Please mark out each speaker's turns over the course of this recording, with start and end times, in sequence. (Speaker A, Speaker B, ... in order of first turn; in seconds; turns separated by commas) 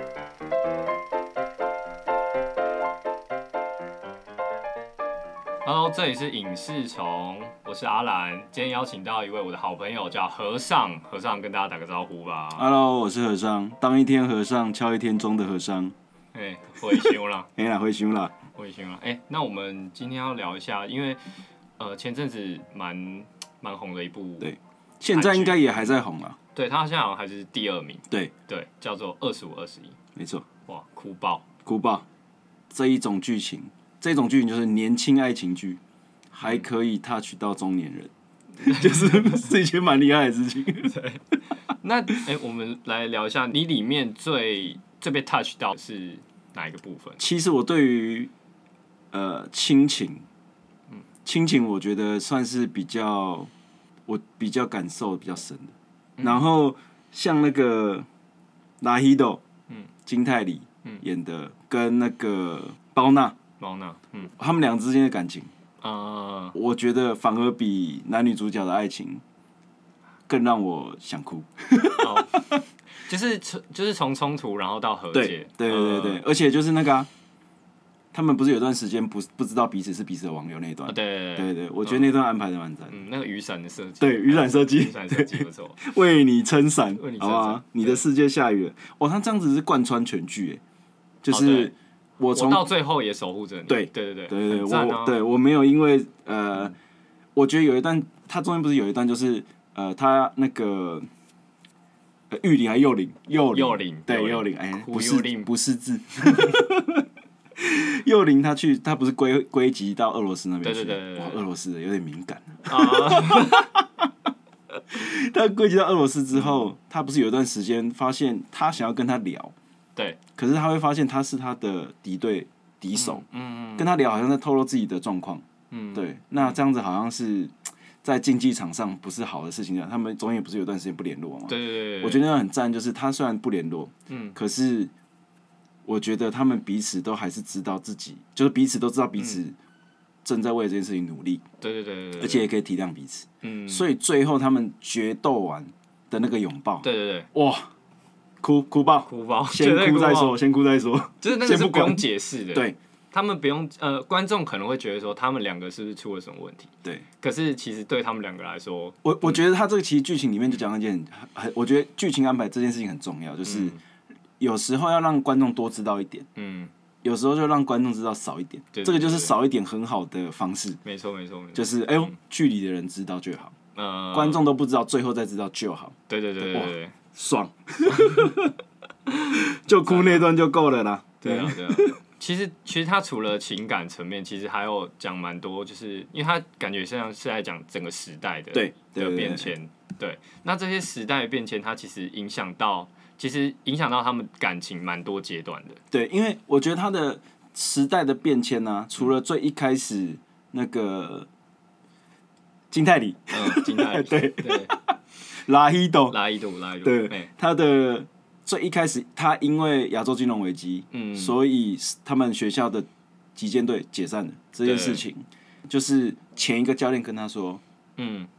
Speaker A: 5.6-12.7, Speaker B: 12.6-15.9, Speaker A: 16.3-17.5, Speaker B: 16.9-18.4, Speaker A: 18.5-21.2, Speaker A: 21.8-24.5, Speaker B: 24.4-26.4, Speaker A: 25.1-25.9, Speaker A: 26.5-29.9, Speaker B: 30.1-30.4, Speaker A: 30.6-31.5, Speaker B: 31.6-32.0, Speaker B: 32.7-35.8, Speaker B: 36.3-41.0, Speaker A: 38.6-39.4, Speaker A: 40.8-41.2, Speaker A: 41.8-47.2, Speaker B: 47.2-48.3, Speaker B: 49.1-50.2, Speaker B: 51.2-53.5, Speaker B: 54.1-58.1, Speaker A: 56.2-56.4, Speaker B: 58.8-59.4, Speaker B: 60.0-63.4, Speaker A: 63.6-64.3, Speaker B: 64.4-65.5, Speaker A: 65.8-66.6, Speaker B: 66.5-69.2, Speaker B: 70.3-72.6, Speaker A: 72.0-76.2, Speaker B: 75.1-77.1, Speaker B: 78.1-83.0, Speaker A: 80.8-82.1, Speaker A: 82.9-85.8, Speaker B: 84.0-90.6, Speaker A: 87.0-88.0, Speaker B: 91.2-92.7, Speaker A: 91.3-91.7, Speaker A: 92.3-95.2, Speaker B: 93.7-96.7, Speaker B: 97.3-101.0, Speaker B: 102.3-107.0, Speaker A: 103.5-105.5, Speaker B: 107.6-114.1, Speaker A: 110.6-111.4, Speaker A: 112.7-113.7, Speaker B: 114.9-119.5, Speaker A: 116.3-116.7, Speaker B: 120.3-123.2, Speaker A: 122.9-123.9, Speaker B: 123.8-134.9, Speaker A: 125.7-126.6, Speaker A: 131.5-132.2, Speaker A: 134.1-134.4, Speaker B: 135.8-139.6, Speaker B: 140.2-141.4, Speaker A: 141.6-142.5, Speaker B: 142.2-147.7, Speaker A: 143.4-143.9, Speaker A: 146.8-147.3, Speaker B: 148.4-152.8, Speaker A: 149.1-150.4, Speaker A: 151.2-159.4, Speaker B: 159.0-163.8, Speaker A: 163.4-163.8, Speaker B: 164.4-166.3, Speaker A: 166.3-166.7, Speaker B: 167.0-170.8, Speaker A: 168.7-169.4, Speaker A: 170.8-172.1, Speaker B: 171.5-173.5, Speaker A: 173.7-174.5, Speaker B: 174.1-178.5, Speaker A: 176.1-176.9, Speaker A: 177.9-178.3, Speaker A: 179.3-180.3, Speaker B: 179.3-181.9, Speaker A: 181.2-195.8, Speaker B: 188.5-189.5, Speaker B: 195.9-201.3, Speaker B: 202.7-206.2, Speaker A: 203.3-204.7, Speaker A: 206.1-207.3, Speaker B: 206.8-217.6, Speaker A: 210.9-211.4, Speaker A: 214.6-215.0, Speaker A: 218.0-218.3